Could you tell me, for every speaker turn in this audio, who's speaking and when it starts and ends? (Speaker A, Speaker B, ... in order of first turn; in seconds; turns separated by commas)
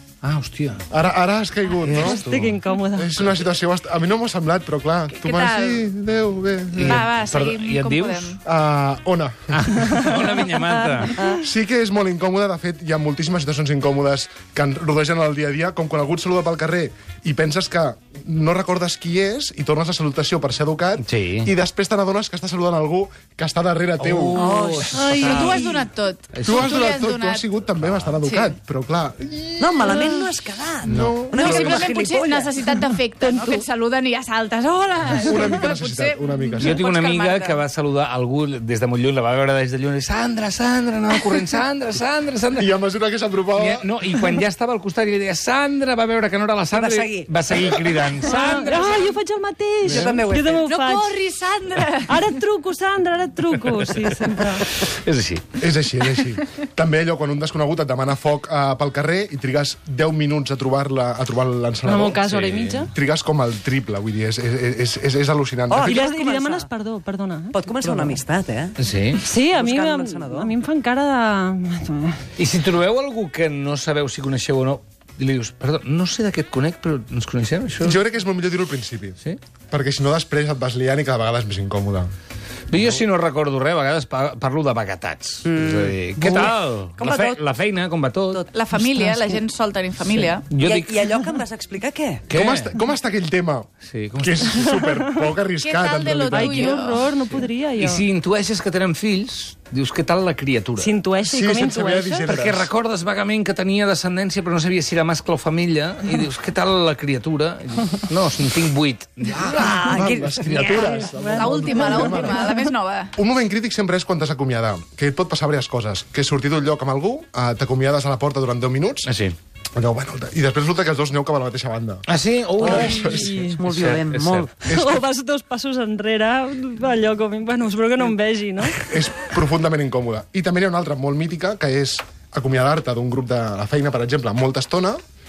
Speaker A: 0.2-0.8, Speaker B: 0.9-7.1, Speaker C: 1.8-3.3, Speaker D: 5.1-5.8, Speaker A: 6.8-8.4, Speaker D: 6.8-8.4, Speaker B: 8.4-10.0, Speaker A: 9.5-11.3, Speaker B: 11.3-24.4, Speaker A: 21.0-21.5, Speaker A: 24.0-26.8, Speaker E: 24.4-25.4, Speaker C: 24.9-25.6, Speaker D: 25.1-27.6, Speaker B: 26.4-30.3, Speaker A: 27.8-28.1, Speaker D: 28.2-28.6, Speaker E: 29.6-32.6, Speaker B: 30.8-31.8, Speaker A: 30.9-31.2, Speaker D: 31.4-37.6, Speaker C: 33.2-33.6, Speaker B: 35.1-36.8, Speaker A: 36.6-42.7, Speaker B: 42.6-43.9, Speaker A: 43.5-49.0, Speaker E: 46.7-47.3, Speaker B: 47.6-48.1, Speaker C: 48.2-51.1, Speaker E: 49.8-50.6, Speaker A: 49.9-50.2, Speaker D: 50.6-52.3, Speaker C: 52.1-54.7, Speaker A: 54.6-55.5, Speaker B: 55.6-62.3, Speaker C: 61.8-62.9, Speaker A: 62.2-62.9, Speaker B: 62.9-66.0, Speaker E: 65.7-66.7, Speaker C: 65.8-68.2, Speaker E: 67.5-68.7, Speaker A: 68.8-69.2, Speaker C: 69.2-72.2, Speaker E: 69.4-70.5, Speaker A: 72.4-78.0, Speaker B: 77.8-79.2, Speaker B: 79.7-82.1, Speaker A: 82.7-88.5, Speaker E: 85.5-87.4, Speaker D: 88.5-90.5, Speaker C: 88.8-89.1, Speaker A: 90.5-91.0, Speaker E: 90.6-92.2, Speaker A: 92.3-92.8, Speaker B: 92.3-93.7, Speaker A: 93.9-94.6, Speaker B: 94.2-96.8, Speaker D: 95.6-97.1, Speaker C: 96.3-98.0, Speaker A: 97.8-100.9, Speaker C: 100.8-102.3, Speaker B: 101.3-102.7, Speaker A: 102.3-111.0, Speaker B: 109.5-112.4, Speaker E: 109.6-112.3, Speaker D: 110.6-113.1, Speaker B: 113.2-119.1, Speaker A: 119.0-119.4, Speaker B: 119.8-122.0, Speaker A: 122.1-124.5, Speaker B: 122.6-123.4, Speaker E: 122.6-122.9, Speaker C: 122.7-123.6, Speaker E: 123.5-124.6, Speaker B: 124.7-125.0, Speaker C: 124.7-128.8, Speaker B: 128.8-135.0